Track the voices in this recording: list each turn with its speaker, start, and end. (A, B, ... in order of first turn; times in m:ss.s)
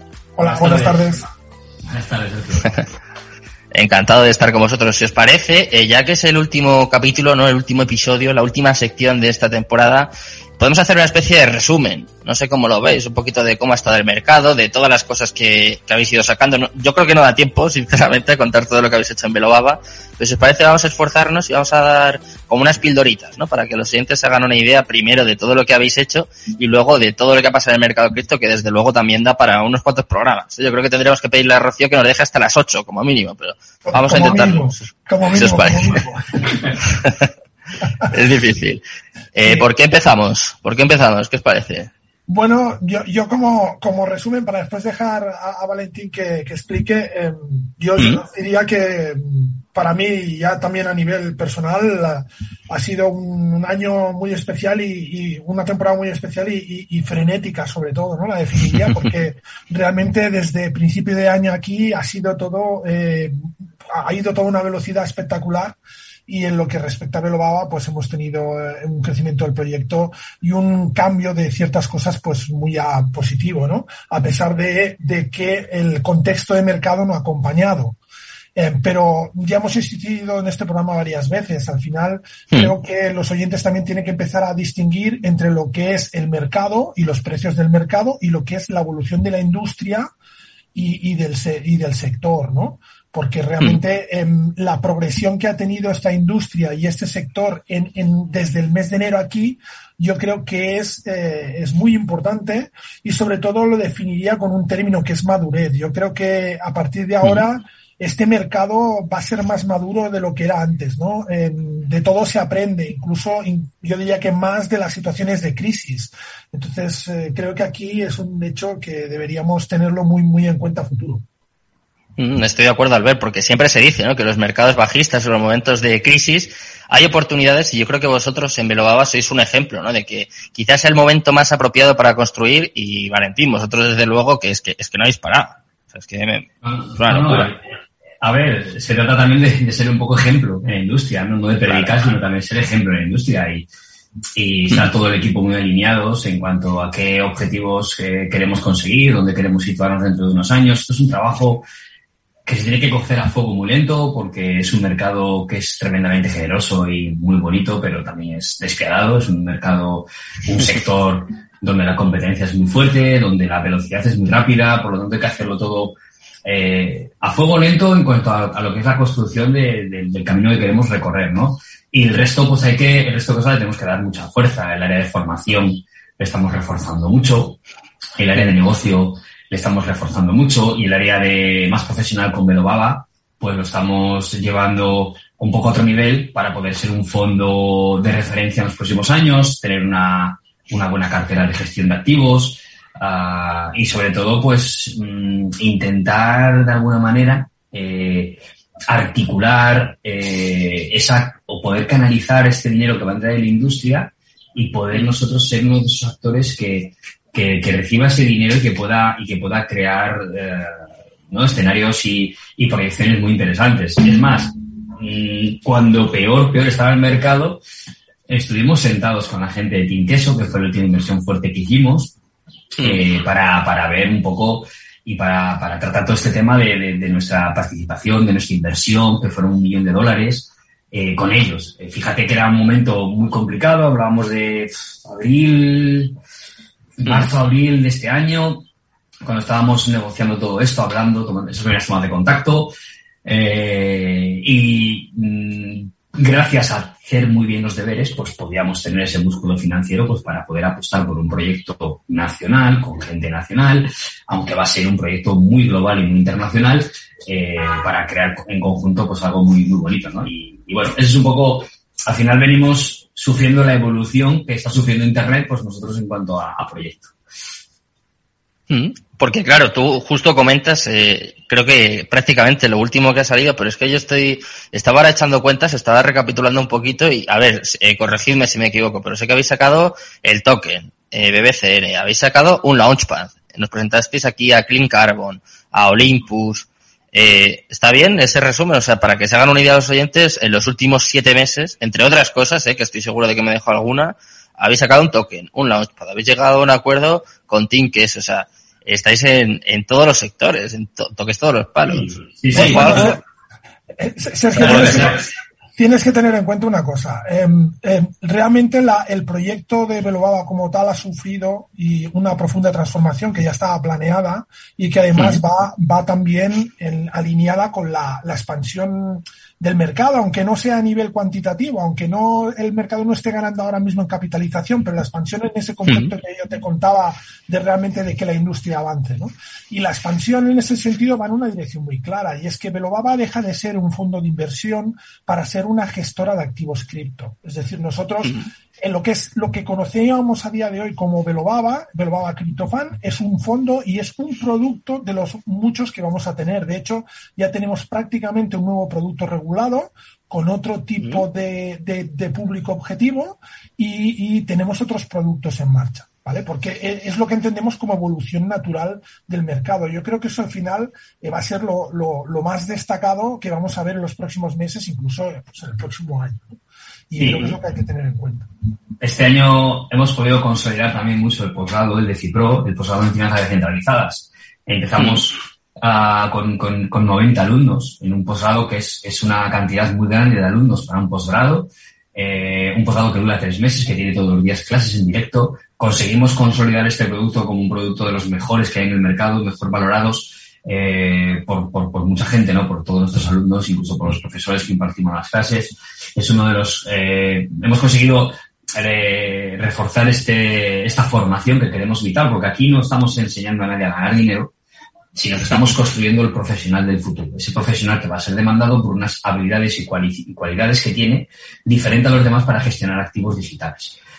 0:00.4-0:01.2 A
0:00.4-0:01.0 B
0:01.9-0:02.8 C
0:03.7-0:36.0 B
0:33.9-0:36.4 A
0:36.9-0:37.2 B
0:38.1-0:38.8 B
0:39.3-0:41.9 B
0:42.3-1:18.0 A
1:18.6-1:30.1 A
1:30.7-2:01.2 A
2:02.2-2:17.6 B
2:16.6-2:17.6 C
2:18.2-2:23.7 C
2:21.6-2:22.0 B
2:24.4-2:31.7 C
2:32.5-2:57.6 C
2:58.2-3:37.6 C
3:38.3-3:42.2 C
3:42.8-3:56.2 C
3:57.0-3:58.6 C
3:59.2-4:02.7 C
4:03.2-4:27.1 C
4:28.7-5:03.2 B
5:01.9-5:03.1 C
5:02.5-5:03.2 A
5:04.0-6:06.6 A
5:04.6-5:05.2 C
5:04.6-5:05.1 B
5:15.2-5:15.4 B
5:25.9-5:26.1 B
6:07.1-6:08.5 A
6:07.2-6:07.6 C
6:09.0-6:44.5 C
6:45.1-6:54.0 C